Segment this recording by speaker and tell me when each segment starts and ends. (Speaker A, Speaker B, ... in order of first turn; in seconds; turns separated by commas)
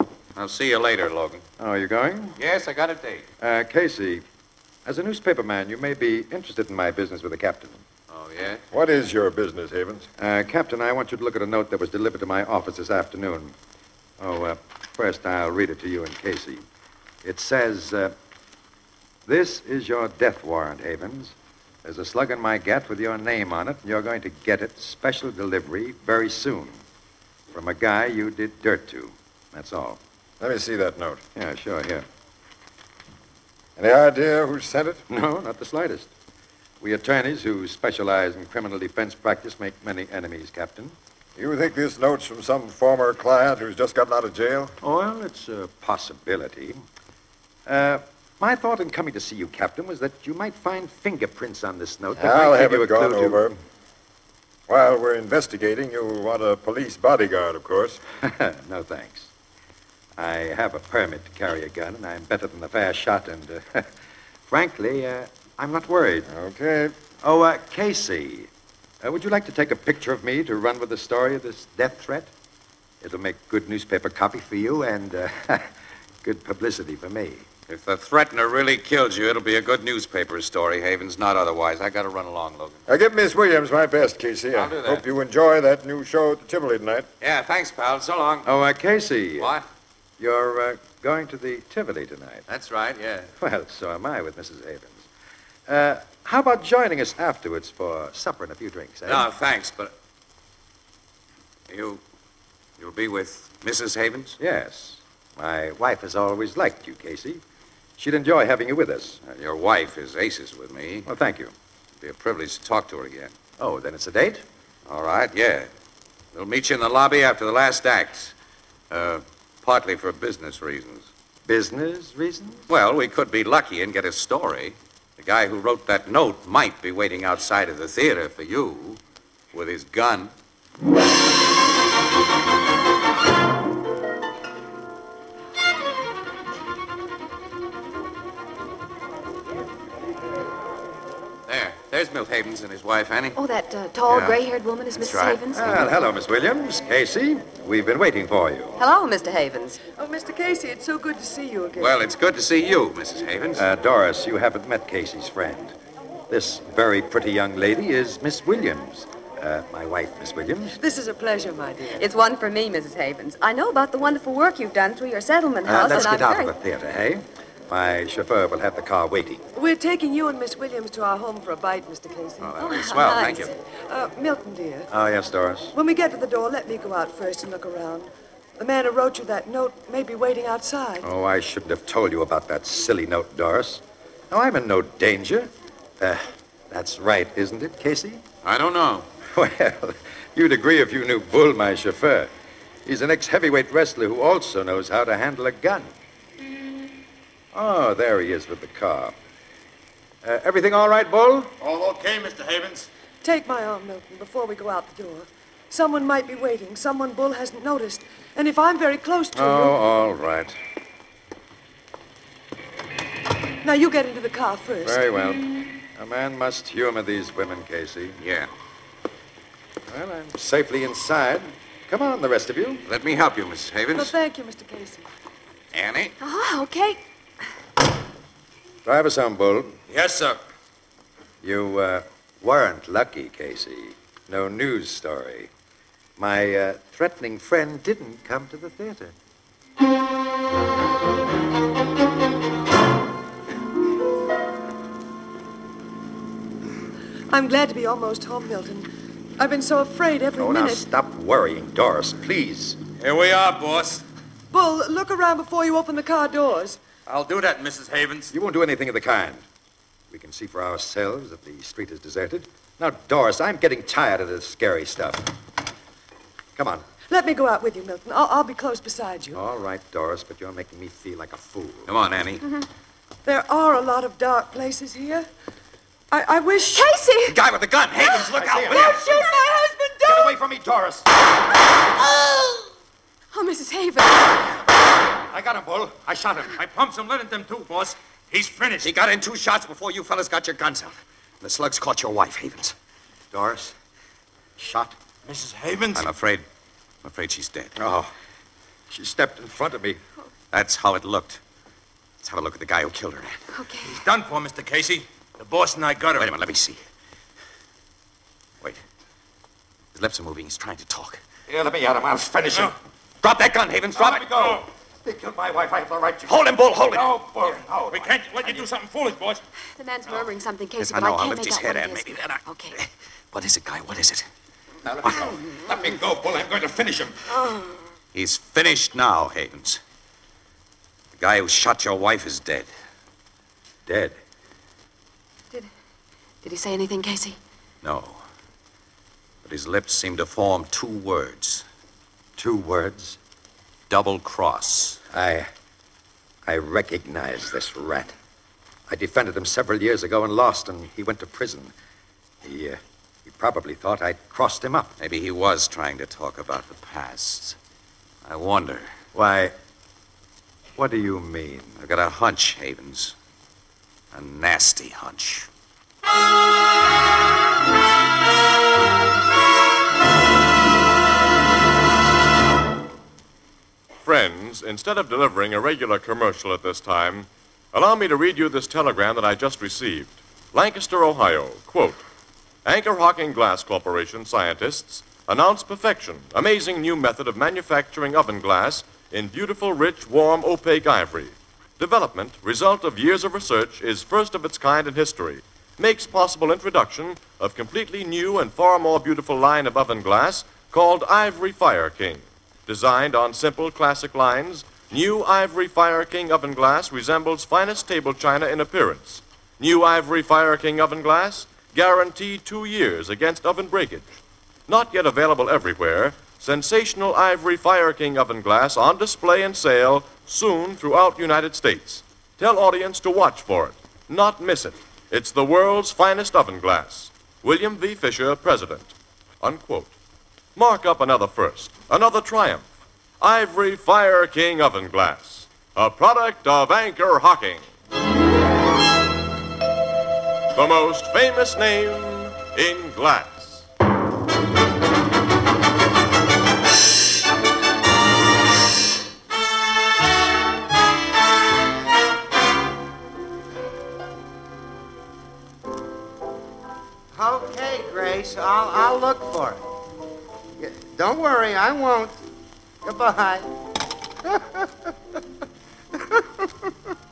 Speaker A: 0.3-1.4, Speaker B: 1.6-2.4, Speaker A: 2.4-3.3, Speaker B: 3.4-4.2, Speaker B: 4.8-7.8, Speaker A: 8.1-8.6, Speaker C: 8.7-10.1, Speaker B: 10.2-13.5, Speaker B: 14.2-16.6, Speaker B: 17.2-18.1, Speaker B: 19.2-26.8, Speaker B: 27.5-30.0, Speaker C: 30.4-31.2, Speaker B: 31.3-32.0, Speaker C: 33.8-35.0, Speaker B: 35.1-36.1, Speaker B: 36.8-41.0, Speaker C: 41.4-44.8, Speaker B: 44.8-46.8, Speaker B: 47.6-53.4, Speaker C: 52.2-53.5, Speaker C: 54.7-58.0, Speaker B: 58.2-59.3, Speaker B: 60.2-63.9, Speaker B: 64.5-66.3, Speaker C: 66.3-66.9, Speaker B: 67.2-68.5, Speaker B: 69.0-72.3, Speaker B: 73.0-75.7, Speaker B: 76.2-77.5, Speaker A: 77.7-82.8, Speaker C: 82.9-87.0, Speaker A: 84.5-85.0, Speaker A: 87.2-88.5, Speaker B: 88.4-89.5, Speaker A: 89.4-89.7, Speaker B: 90.2-92.4, Speaker A: 92.5-93.3, Speaker B: 93.4-95.1, Speaker B: 95.7-99.3, Speaker A: 99.0-99.9, Speaker A: 101.7-102.0, Speaker A: 102.8-104.4, Speaker B: 104.4-107.4, Speaker B: 108.0-109.2, Speaker A: 109.2-111.1, Speaker B: 111.0-111.5, Speaker A: 112.0-113.3, Speaker B: 113.6-114.4, Speaker A: 114.9-115.7, Speaker A: 116.3-118.3, Speaker A: 118.9-121.1, Speaker B: 121.4-122.7, Speaker A: 122.7-129.0, Speaker A: 129.5-130.3, Speaker A: 141.5-143.4, Speaker D: 143.3-145.7, Speaker A: 144.1-144.4, Speaker A: 144.9-145.7, Speaker B: 145.5-148.7, Speaker D: 148.8-149.8, Speaker E: 149.9-152.0, Speaker A: 151.8-153.6, Speaker B: 153.5-155.8, Speaker B: 156.3-160.8, Speaker E: 160.8-162.1, Speaker D: 161.9-166.5, Speaker B: 165.6-169.4, Speaker E: 169.5-172.5, Speaker A: 172.4-173.5, Speaker D: 172.6-173.5, Speaker E: 173.9-174.9, Speaker B: 174.9-175.7, Speaker E: 175.7-181.1, Speaker B: 181.0-188.2, Speaker A: 188.4-189.1, Speaker B: 189.2-192.3, Speaker B: 192.8-195.9, Speaker B: 197.5-199.2, Speaker B: 200.2-201.6, Speaker F: 201.6-202.9, Speaker E: 203.2-209.8, Speaker B: 209.3-210.6, Speaker E: 213.6-215.0, Speaker B: 214.8-218.2, Speaker A: 218.2-218.5, Speaker B: 219.9-222.8, Speaker A: 222.8-224.1, Speaker E: 223.9-225.1, Speaker A: 225.7-226.2, Speaker D: 226.2-227.0, Speaker B: 228.8-229.8, Speaker F: 229.9-230.4, Speaker B: 231.4-235.5, Speaker B: 236.2-239.1, Speaker E: 247.3-250.8, Speaker B: 250.3-252.8, Speaker F: 253.0-254.0, Speaker E: 254.5-256.8, Speaker F: 257.1-258.3, Speaker B: 258.3-259.4, Speaker B: 260.1-265.3, Speaker B: 266.5-266.8, Speaker E: 267.1-269.4, Speaker B: 269.3-271.9, Speaker A: 271.9-272.5, Speaker E: 273.2-275.3, Speaker E: 276.1-276.9, Speaker D: 276.7-277.4, Speaker A: 277.2-279.1, Speaker D: 278.1-280.1, Speaker B: 278.1-279.4, Speaker B: 280.0-281.1, Speaker D: 282.0-282.6, Speaker D: 283.3-284.4, Speaker B: 285.3-288.9, Speaker F: 286.8-288.6, Speaker A: 288.8-292.7, Speaker B: 293.3-293.7, Speaker B: 294.6-294.9, Speaker F: 295.3-296.1, Speaker A: 295.9-296.4, Speaker A: 297.0-297.8, Speaker B: 297.8-298.1, Speaker B: 298.9-300.0, Speaker A: 300.5-301.4, Speaker A: 302.2-303.6, Speaker D: 303.5-304.0, Speaker F: 303.8-306.3, Speaker A: 306.1-306.8, Speaker A: 309.9-311.2, Speaker B: 311.5-312.7, Speaker A: 313.2-314.6, Speaker B: 313.9-316.4, Speaker A: 316.2-317.2, Speaker B: 316.9-318.8, Speaker F: 317.4-319.4, Speaker D: 319.8-322.8, Speaker A: 320.8-324.2, Speaker B: 324.9-327.1, Speaker D: 327.4-327.7, Speaker A: 328.1-329.8, Speaker A: 331.2-332.7, Speaker B: 333.9-334.2, Speaker D: 336.4-337.4, Speaker A: 337.8-338.2, Speaker A: 339.4-341.6, Speaker B: 342.4-343.2, Speaker A: 343.9-345.0, Speaker B: 345.1-345.5, Speaker B: 346.4-348.1, Speaker B: 348.9-351.7, Speaker B: 352.4-354.9, Speaker A: 355.0-357.6, Speaker A: 358.2-358.9, Speaker B: 359.1-359.5, Speaker B: 360.8-361.8, Speaker A: 361.8-363.1, Speaker A: 364.1-365.5, Speaker G: 374.0-382.0, Speaker G: 382.6-414.1, Speaker G: 414.7-429.9, Speaker G: 430.6-432.7, Speaker G: 433.2-437.6, Speaker G: 440.5-443.6, Speaker H: 457.1-459.6, Speaker H: 460.6-462.2, Speaker H: 462.8-463.5, Speaker H: 464.2-464.9, Speaker H: 465.9-466.7